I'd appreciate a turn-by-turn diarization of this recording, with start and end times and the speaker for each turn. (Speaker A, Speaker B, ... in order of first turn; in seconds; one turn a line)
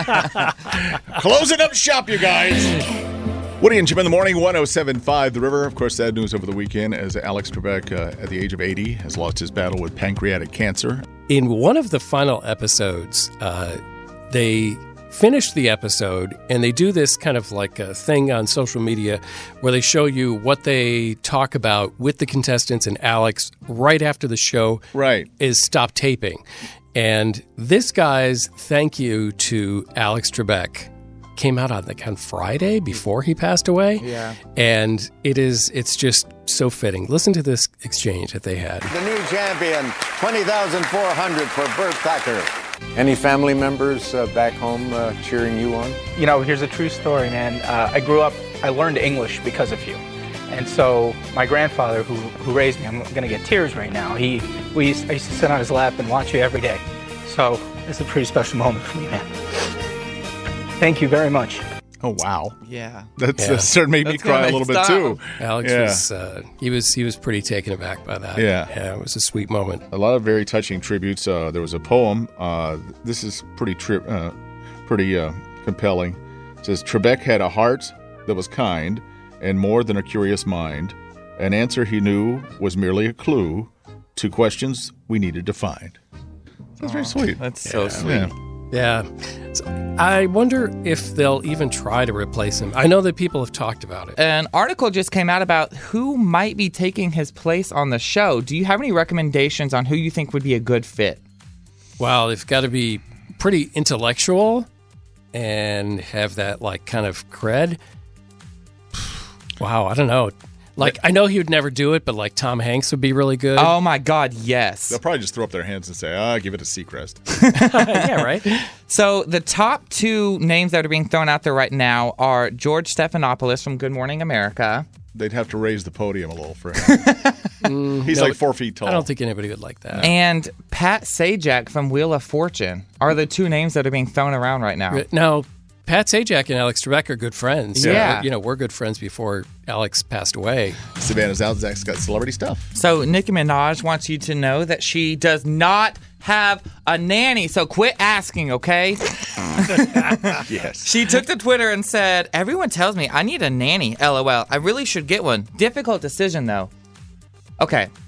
Speaker A: 0.7-2.9
Speaker A: 3.6-11.1
Speaker B: 11.3-24.9
Speaker A: 24.9-25.3
Speaker B: 25.4-26.4
Speaker B: 26.9-38.9
Speaker C: 34.0-34.4
Speaker D: 38.9-46.0
Speaker E: 46.1-59.3
Speaker E: 60.8-61.6
Speaker A: 62.0-62.6
Speaker C: 62.6-63.1
Speaker A: 63.2-66.0
Speaker B: 63.4-63.7
Speaker C: 64.0-65.2
Speaker B: 65.4-69.8
Speaker A: 68.4-68.7
Speaker A: 69.9-74.4
Speaker A: 74.9-86.0
Speaker A: 86.8-87.4
Speaker C: 86.8-88.3
Speaker B: 87.7-88.0
Speaker A: 88.0-88.3
Speaker B: 88.7-94.2
Speaker C: 94.2-101.2
Speaker B: 102.0-104.7
Speaker B: 105.3-107.8
Speaker B: 109.6-113.7
Speaker C: 113.6-115.0
Speaker A: 114.9-117.2
Speaker C: 117.3-118.3
Speaker B: 117.5-118.7
Speaker C: 118.9-124.9
Speaker A: 125.1-127.1
Speaker C: 126.8-127.4
Speaker B: 127.6-130.1
Speaker A: 128.0-129.1
Speaker C: 130.0-135.0
Speaker B: 134.9-140.8
Speaker C: 137.8-138.3
Speaker A: 137.8-138.2
Speaker A: 141.0-142.7
Speaker C: 142.8-156.7
Speaker A: 150.4-151.0
Speaker C: 157.6-157.9